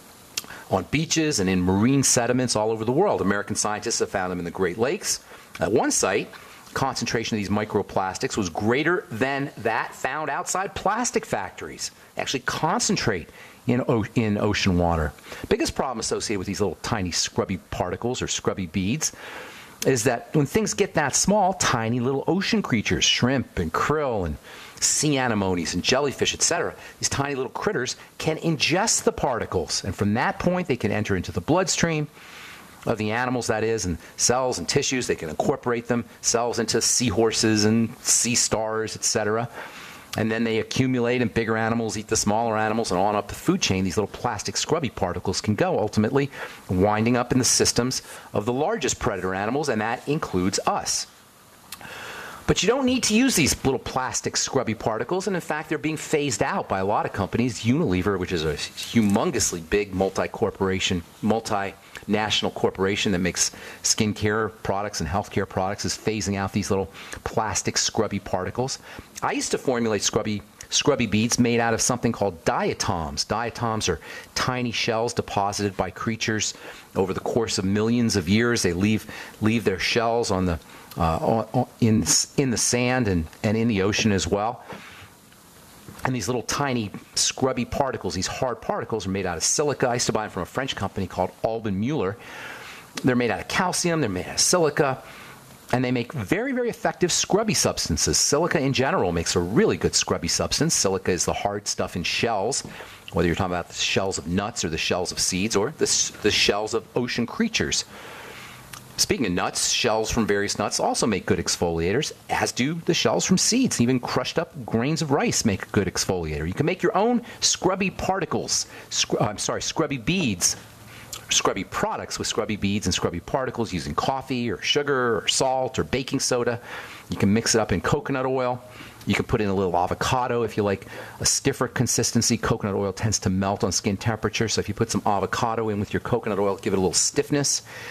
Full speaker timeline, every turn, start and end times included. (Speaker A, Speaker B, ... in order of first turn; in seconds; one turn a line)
Speaker A: 0.7-19.1
Speaker A: 19.8-32.1
Speaker A: 32.9-39.5
Speaker A: 40.1-51.1
Speaker A: 52.5-84.6
Speaker A: 86.0-92.2
Speaker A: 93.0-95.0
Speaker A: 95.7-107.8
Speaker A: 109.0-120.6
Speaker A: 121.3-137.6